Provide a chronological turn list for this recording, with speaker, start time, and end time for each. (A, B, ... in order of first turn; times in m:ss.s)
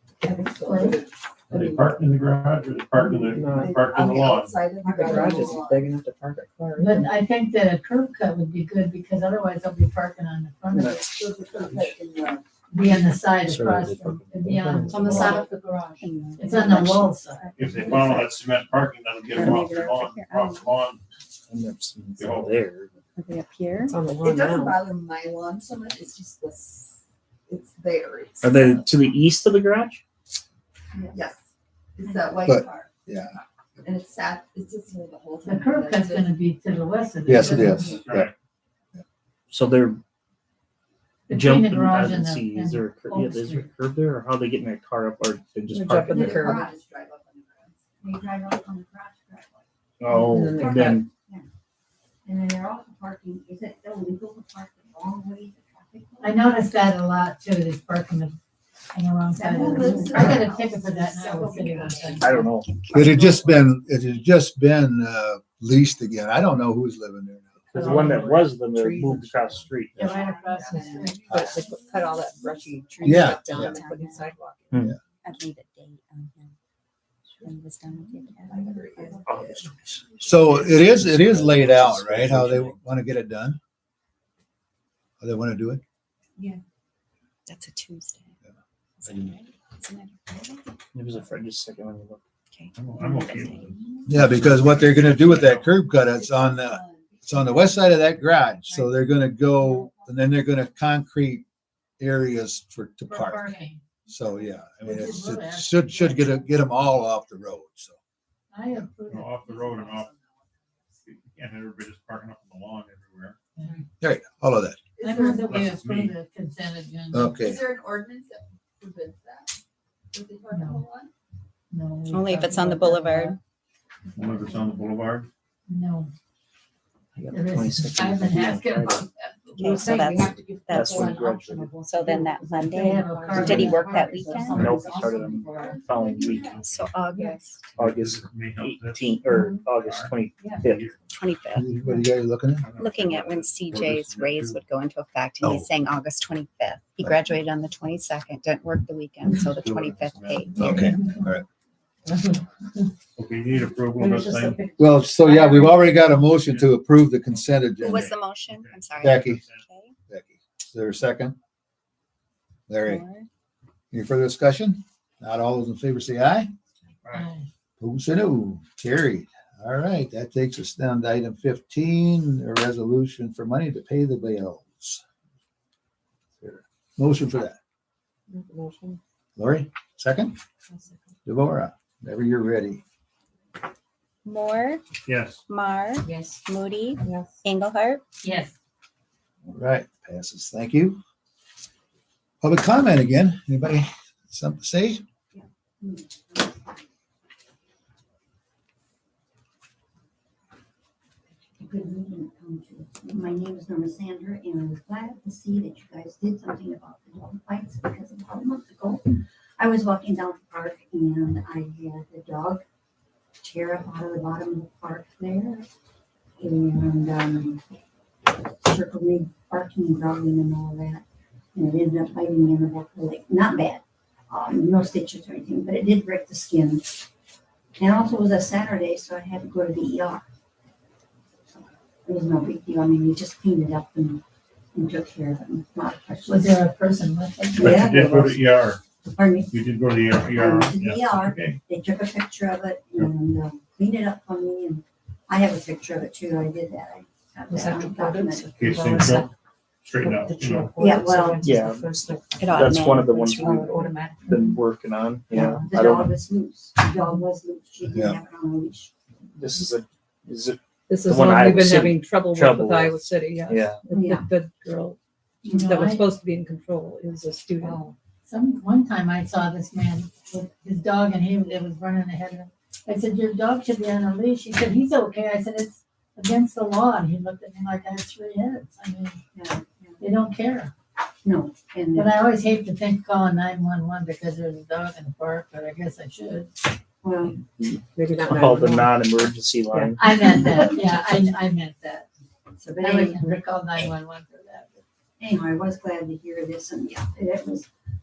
0:00.2-0:02.0 A
0:00.3-0:01.0 B
0:01.5-0:04.6 C
0:03.1-0:03.7 D
0:03.1-0:05.9 A
0:04.8-0:05.7 E
0:04.9-0:07.1 D
0:06.8-0:11.1 B
0:11.1-0:12.4 A
0:12.7-0:17.4 B
0:13.5-0:15.0 F
0:14.7-0:15.2 G
0:14.9-0:15.8 A
0:16.0-0:18.3 H
0:17.6-0:21.0 C
0:19.3-0:20.8 H
0:21.5-0:22.9 G
0:22.2-0:22.6 C
0:23.2-0:24.0 H
0:23.9-0:24.8 D
0:24.2-0:28.8 A
0:28.4-0:30.0 G
0:31.0-0:31.4 A
0:32.0-0:32.9 A
0:32.5-0:33.4 F
0:33.8-0:36.4 A
0:35.4-0:38.0 B
0:37.3-0:38.3 F
0:37.9-0:38.3 C
0:39.5-0:40.0 G
0:41.3-0:43.7 B
0:41.3-0:46.6 G
0:45.7-0:46.7 D
0:46.1-0:47.3 E
0:46.5-0:47.7 A
0:48.0-0:51.5 E
0:50.0-0:51.1 G
0:50.3-0:51.0 D
0:52.2-0:56.5 E
0:56.2-0:58.4 B
0:58.9-1:02.4 B
0:59.4-1:00.5 E
0:59.4-1:02.4 A
1:02.2-1:02.7 G
1:02.6-1:03.6 H
1:02.9-1:07.8 F
1:07.7-1:10.2 G
1:07.8-1:08.4 B
1:08.1-1:09.6 D
1:10.0-1:11.3 B
1:10.0-1:13.2 A
1:10.6-1:14.8 D
1:13.0-1:13.8 F
1:13.4-1:14.4 H
1:15.2-1:16.6 H
1:17.4-1:21.0 H
1:18.0-1:19.7 A
1:19.3-1:22.7 G
1:20.3-1:23.6 F
1:25.2-1:25.8 F
1:27.5-1:28.3 H
1:29.0-1:30.7 H
1:29.1-1:29.3 F
1:30.9-1:32.2 G
1:32.5-1:33.8 H
1:32.8-1:35.6 C
1:34.1-1:41.4 F
1:34.8-1:37.9 A
1:42.0-1:43.5 F
1:43.1-1:43.8 B
1:44.1-1:48.0 F
1:44.8-1:46.4 B
1:48.5-1:50.0 B
1:49.1-1:50.1 C
1:51.0-1:53.4 C
1:53.6-1:53.8 B
1:54.0-1:54.8 F
1:55.0-1:55.7 A
1:55.0-1:57.4 B
1:55.4-1:56.1 C
1:57.1-1:57.6 F
1:57.3-1:59.6 A
2:00.1-2:01.1 A
2:00.5-2:00.8 B
2:01.7-2:03.4 B
2:02.1-2:03.4 H
2:04.1-2:05.3 C
2:05.7-2:06.1 B
2:07.2-2:09.1 G
2:07.3-2:09.1 B
2:09.3-2:11.3 A
2:09.6-2:14.8 H
2:10.7-2:11.8 G
2:11.5-2:11.9 D
2:12.7-2:14.2 B
2:12.8-2:14.4 D
2:13.3-2:13.8 G
2:13.6-2:16.6 A
2:14.5-2:14.9 C
2:14.5-2:16.6 G
2:16.4-2:16.8 C
2:16.6-2:17.7 H
2:17.8-2:21.2 C
2:17.8-2:20.9 G
2:21.1-2:21.7 H
2:21.5-2:22.7 F
2:22.5-2:24.6 C
2:22.7-2:31.0 H
2:25.4-2:25.7 F
2:29.5-2:30.9 C
2:30.6-2:31.4 F
2:33.2-2:34.7 C
2:34.0-2:35.7 D
2:34.8-2:38.1 F
2:36.1-2:39.6 C
2:37.8-2:40.0 H
2:39.0-2:39.4 F
2:40.1-2:41.4 F
2:42.7-2:43.0 F
2:42.8-2:43.3 H
2:43.9-2:46.5 F
2:47.1-2:47.5 B
2:47.8-2:55.0 F
2:56.4-2:57.6 F
2:58.3-2:59.0 D
2:59.4-3:00.4 F
3:00.7-3:01.0 D
3:01.3-3:02.8 F
3:04.2-3:04.8 H
3:05.1-3:05.4 C
3:05.5-3:08.0 H
3:06.0-3:06.4 D
3:07.0-3:07.4 D
3:08.2-3:08.5 B
3:09.5-3:11.0 F
3:12.4-3:15.0 F
3:15.3-3:16.7 E
3:21.6-3:32.6 E
3:33.4-3:35.7 E
3:36.4-3:37.6 E
3:38.3-3:41.0 E
3:41.6-3:47.1 E
3:47.8-3:50.3 E
3:52.0-3:54.2 E
3:54.7-3:56.6 E
3:56.3-3:57.8 B
3:57.6-3:58.4 E
3:57.6-3:58.8 C
3:59.1-3:59.6 E
3:59.5-4:01.6 C
4:00.3-4:09.0 E
4:07.5-4:09.3 D
4:08.6-4:09.3 C
4:09.8-4:10.8 C
4:10.0-4:14.4 D
4:10.8-4:11.4 E
4:11.4-4:11.9 G
4:12.4-4:13.2 H
4:12.5-4:16.1 G
4:15.3-4:15.7 D
4:15.4-4:18.9 E
4:17.9-4:18.2 F
4:19.3-4:23.8 G
4:20.9-4:25.0 D
4:23.9-4:24.3 E
4:25.4-4:25.8 E
4:25.5-4:26.1 B
4:25.6-4:27.9 D
4:27.6-4:27.9 E
4:28.2-4:39.2 B
4:39.3-4:40.0 E
4:40.0-4:40.7 B
4:41.2-4:42.1 E
4:42.0-4:46.7 B
4:47.0-4:47.4 E
4:47.4-4:50.0 G
4:47.9-4:48.9 D
4:49.7-4:50.7 D
4:50.0-4:52.1 B
4:52.6-4:53.4 E
4:52.8-4:54.8 B
4:55.2-4:57.7 E